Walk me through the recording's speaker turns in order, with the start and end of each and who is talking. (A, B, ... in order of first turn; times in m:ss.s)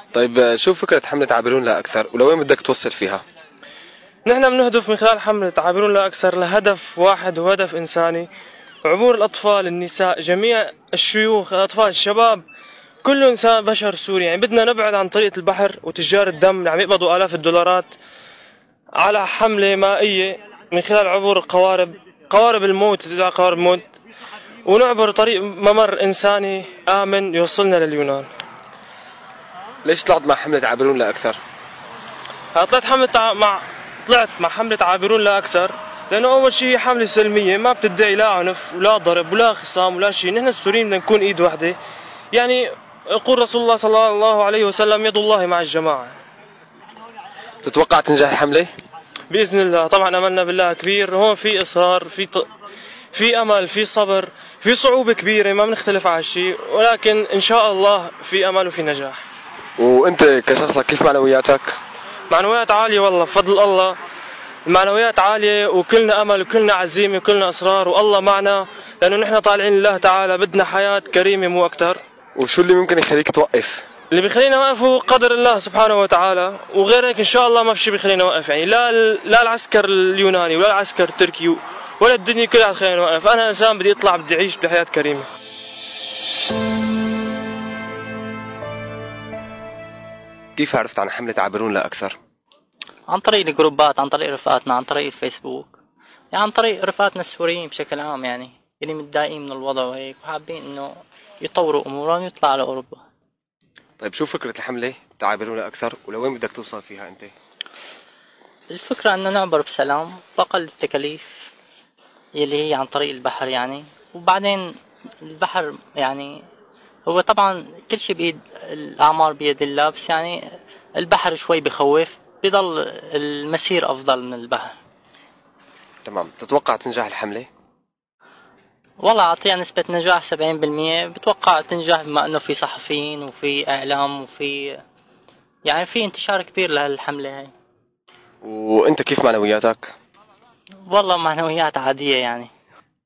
0:00.1-0:03.2 A
0:04.2-0:08.3 B
0:08.9-0:12.4 B
0:13.0-0:17.9 B
0:19.0-0:23.8 B
0:24.7-0:28.3 B
0:29.8-0:31.4 A
0:32.5-0:41.8 B
0:42.3-0:46.1 B
0:47.6-0:48.7 A
0:49.3-0:52.5 B
0:53.1-0:59.2 B
0:59.8-1:01.8 A
1:02.3-1:04.0 B
1:04.7-1:12.0 B
1:12.4-1:13.8 A
1:14.1-1:25.2 B
1:30.6-1:32.2 A
1:33.1-1:35.7 C
1:36.3-1:43.0 C
1:44.0-1:47.3 A
1:48.7-1:51.3 C
1:52.4-1:56.4 C
1:57.1-2:00.4 C
2:01.0-2:04.8 C
2:06.0-2:07.5 A
2:09.0-2:14.8 C
2:15.6-2:17.5 C
2:18.4-2:19.9 A
2:20.9-2:22.5 C